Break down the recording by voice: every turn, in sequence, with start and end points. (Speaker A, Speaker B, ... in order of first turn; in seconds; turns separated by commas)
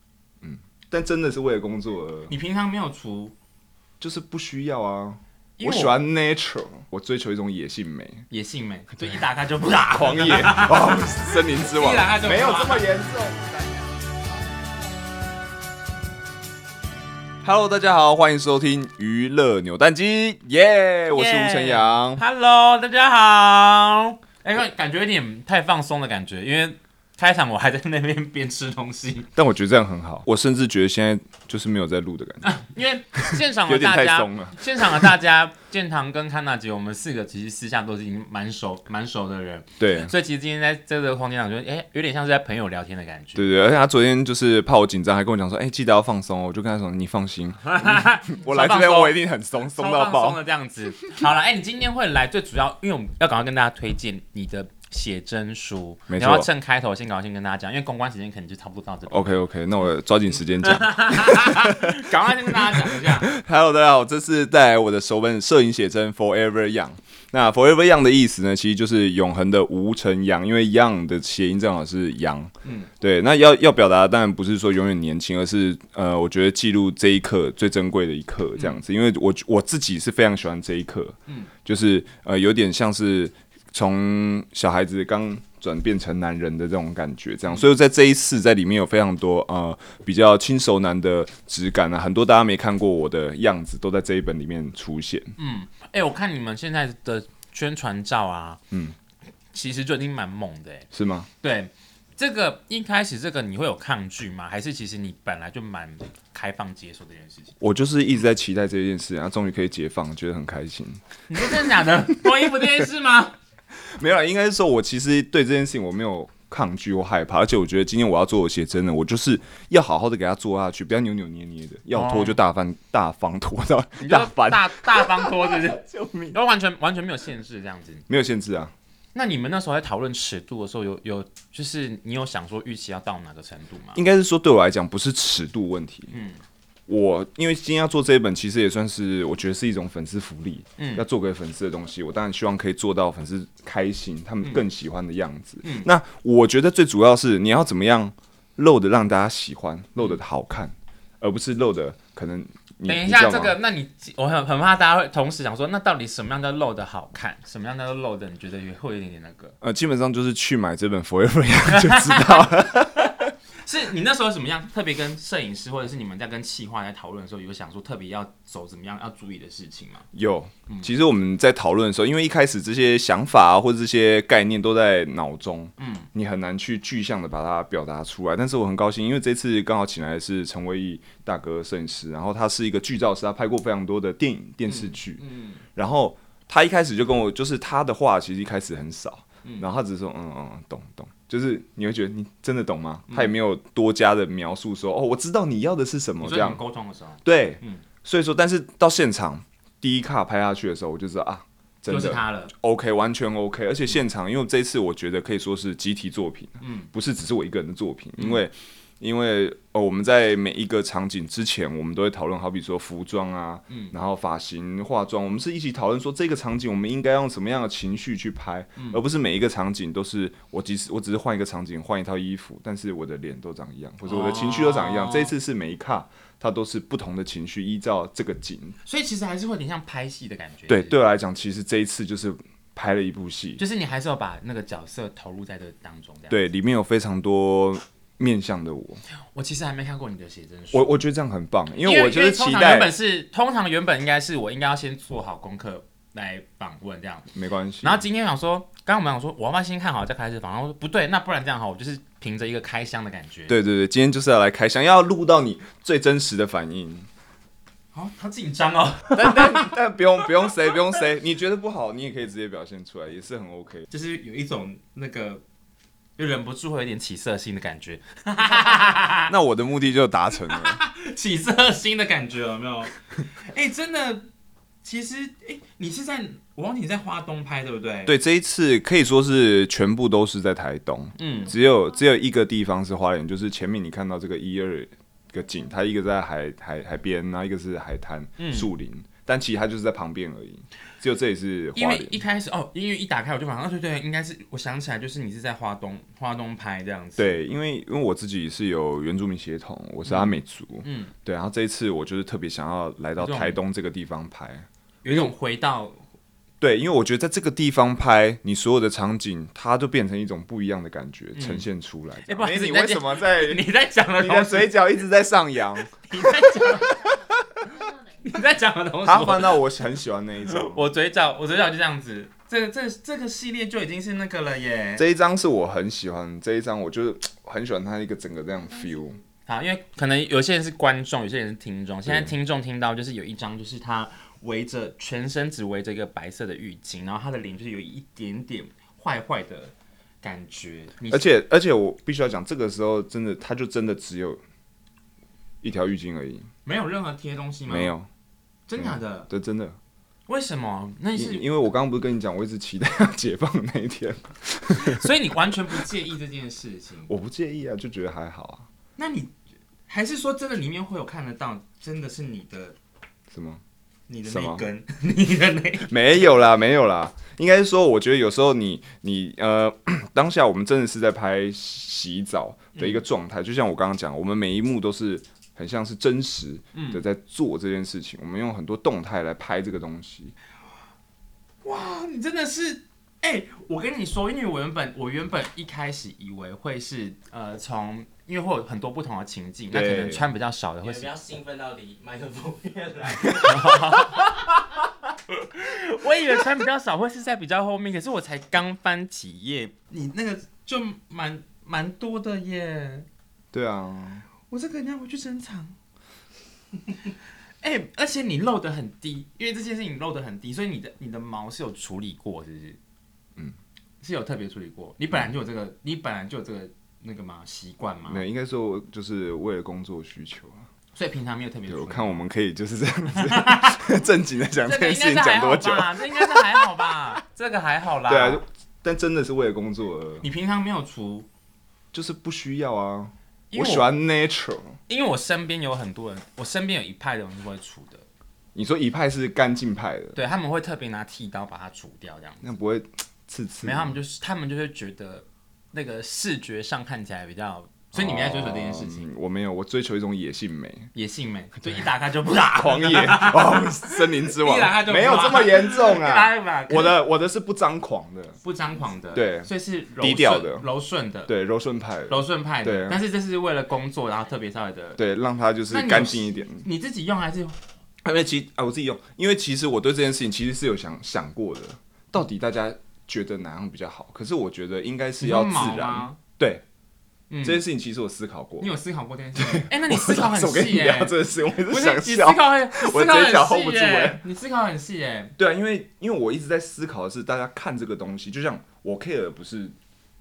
Speaker A: 0.4-2.3, Speaker B: 2.3-3.3, Speaker A: 4.0-8.2, Speaker B: 5.6-5.9, Speaker B: 8.3-12.9, Speaker A: 9.9-13.7, Speaker A: 17.4-22.2, Speaker B: 21.1-29.3, Speaker A: 29.4-32.5, Speaker B: 32.4-43.5, Speaker A: 33.1-35.1, Speaker A: 39.8-40.1, Speaker A: 43.3-50.4, Speaker B: 47.6-49.2, Speaker B: 49.7-59.4, Speaker A: 56.1-56.5, Speaker A: 59.1-95.3, Speaker B: 60.6-63.3, Speaker B: 72.6-72.9, Speaker B: 95.4-98.6, Speaker A: 98.7-99.0, Speaker B: 99.5-100.9, Speaker A: 100.9-101.3, Speaker B: 101.4-107.5, Speaker A: 107.6-112.8, Speaker B: 111.3-113.3, Speaker A: 113.8-126.4, Speaker B: 121.9-122.4, Speaker B: 124.0-128.1, Speaker A: 128.1-128.7, Speaker B: 129.1-134.0, Speaker A: 133.9-136.1, Speaker B: 136.1-136.4, Speaker A: 136.9-153.6, Speaker B: 140.8-141.0, Speaker B: 145.6-145.9, Speaker B: 152.9-159.6, Speaker A: 159.6-163.3, Speaker B: 161.7-162.5, Speaker B: 163.6-170.1, Speaker A: 170.1-185.2, Speaker B: 175.8-176.1, Speaker B: 184.7-185.6, Speaker A: 185.7-196.6, Speaker B: 196.2-197.8, Speaker A: 197.2-228.8, Speaker B: 201.9-202.5, Speaker B: 206.6-206.9, Speaker B: 208.2-208.4, Speaker B: 213.7-213.9, Speaker B: 224.0-225.3, Speaker B: 228.8-231.0, Speaker A: 230.7-233.6, Speaker B: 233.6-236.4, Speaker A: 236.3-239.0, Speaker B: 239.3-240.9, Speaker A: 240.7-242.9, Speaker B: 241.8-253.6, Speaker A: 247.3-248.0, Speaker A: 253.5-257.1, Speaker B: 257.9-259.7, Speaker A: 259.1-263.9, Speaker B: 263.9-265.4, Speaker B: 266.2-269.3, Speaker A: 268.5-270.8, Speaker B: 270.5-274.3, Speaker B: 274.8-278.1, Speaker A: 278.1-292.2, Speaker B: 281.2-281.5, Speaker B: 288.4-288.7, Speaker B: 291.8-297.4, Speaker A: 297.2-305.3, Speaker B: 300.0-301.1, Speaker B: 303.2-303.6, Speaker B: 305.0-306.0, Speaker A: 306.6-315.9, Speaker B: 311.4-311.6, Speaker B: 312.3-314.8, Speaker B: 316.0-317.1, Speaker A: 317.1-317.6, Speaker B: 317.8-319.6, Speaker A: 319.0-320.9, Speaker B: 320.5-325.0, Speaker A: 325.0-329.2, Speaker B: 329.4-341.2, Speaker A: 332.0-332.3, Speaker A: 341.1-344.4, Speaker A: 345.6-346.5, Speaker B: 346.6-347.9, Speaker A: 347.7-348.1, Speaker B: 348.7-349.3, Speaker A: 348.8-349.8, Speaker B: 350.3-351.5, Speaker A: 351.1-355.1, Speaker B: 354.7-357.1, Speaker A: 357.1-358.7, Speaker B: 359.0-359.3, Speaker B: 359.9-362.8, Speaker A: 363.3-363.6, Speaker B: 364.1-365.9, Speaker A: 364.2-364.7, Speaker A: 365.8-380.3, Speaker B: 372.8-373.0, Speaker B: 376.7-377.0, Speaker B: 381.6-391.1, Speaker A: 389.7-390.3, Speaker C: 390.9-394.3, Speaker B: 393.4-403.1, Speaker A: 403.5-404.3, Speaker B: 404.5-405.8, Speaker B: 407.0-412.8, Speaker B: 414.0-418.2, Speaker A: 418.1-420.6, Speaker B: 420.9-422.2, Speaker A: 421.7-427.2, Speaker B: 423.2-423.8, Speaker B: 424.6-428.4, Speaker A: 428.1-430.2, Speaker B: 430.2-431.3, Speaker A: 431.9-434.8, Speaker B: 433.5-433.9, Speaker B: 434.9-438.0, Speaker A: 438.5-440.2, Speaker B: 440.1-442.5, Speaker A: 442.4-443.9, Speaker B: 443.6-449.1, Speaker A: 447.9-450.9, Speaker B: 450.9-457.0, Speaker A: 452.5-458.4, Speaker B: 458.4-461.3, Speaker A: 459.1-460.7, Speaker A: 461.3-463.0, Speaker B: 462.1-465.0, Speaker A: 465.0-466.7, Speaker B: 465.7-467.6, Speaker A: 468.0-476.6, Speaker B: 475.2-476.2, Speaker B: 477.3-477.6, Speaker A: 477.4-478.7, Speaker B: 478.6-485.4, Speaker A: 479.4-484.2, Speaker A: 485.4-489.7